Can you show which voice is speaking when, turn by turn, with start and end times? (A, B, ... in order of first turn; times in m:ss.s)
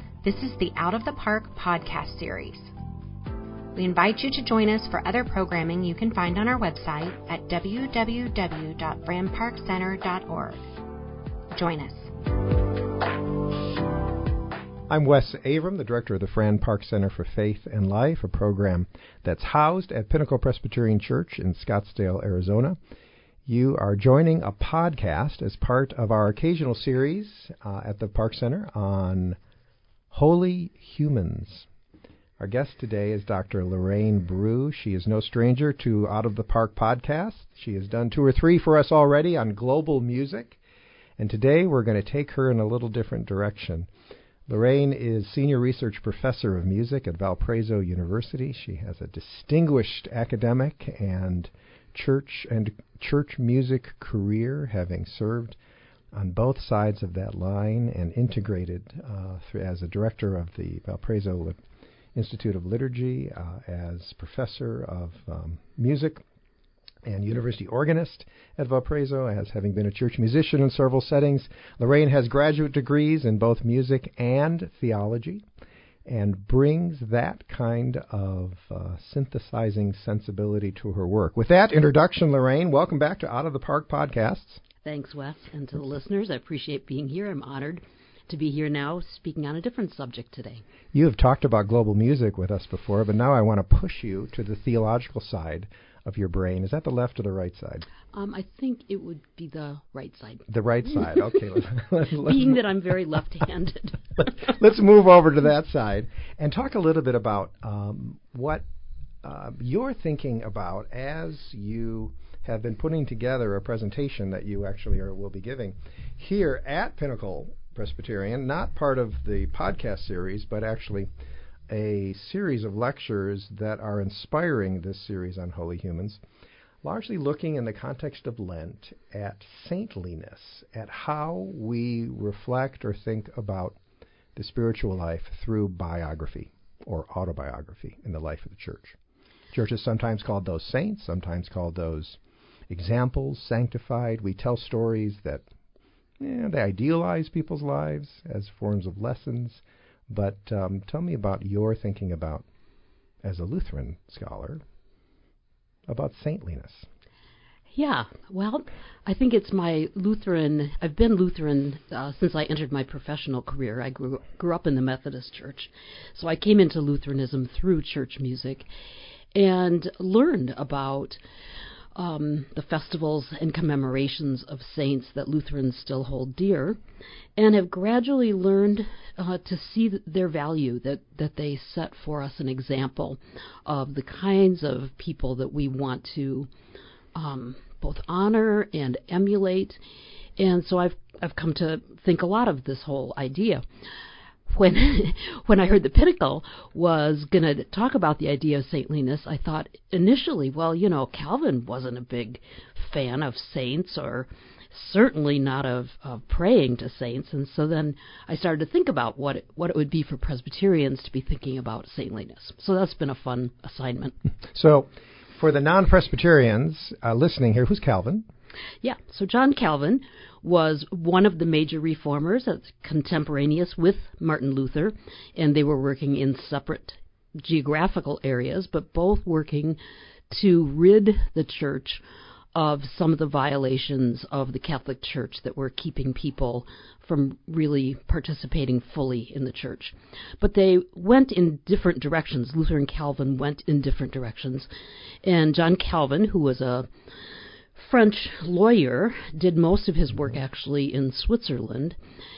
0:00.2-0:02.7 A
0:03.8-0:10.7 A
0:11.5-0:12.1 A
0:14.9-0:22.8 B
0:23.5-0:29.4 B
0:30.1-0:31.7 B
0:32.4-0:40.6 B
0:41.2-0:43.9 B
0:44.5-0:55.6 B
0:56.1-1:01.6 B
1:02.1-1:06.2 B
1:07.0-1:15.4 B
1:16.1-1:24.6 B
1:24.8-1:30.6 C
1:30.9-1:37.9 B
1:38.1-1:41.0 C
1:40.5-1:42.6 B
1:42.2-1:44.5 C
1:44.4-1:48.6 B
1:49.2-2:01.1 B
2:01.7-2:06.2 B
2:06.8-2:13.8 B
2:14.4-2:19.0 B
2:19.5-2:25.5 B
2:26.2-2:32.5 B
2:33.2-2:34.6 B
2:35.9-2:36.9 B
2:37.7-2:48.7 C
2:49.3-2:51.2 C
2:52.0-2:56.8 C
2:57.4-3:06.5 C
3:07.1-3:09.8 C
3:10.4-3:13.6 C
3:14.5-3:34.2 C
3:34.5-3:38.2 B
3:38.8-3:49.8 C
3:50.3-3:52.0 C
3:52.5-4:04.7 C
4:05.2-4:06.9 C
4:07.8-4:12.0 C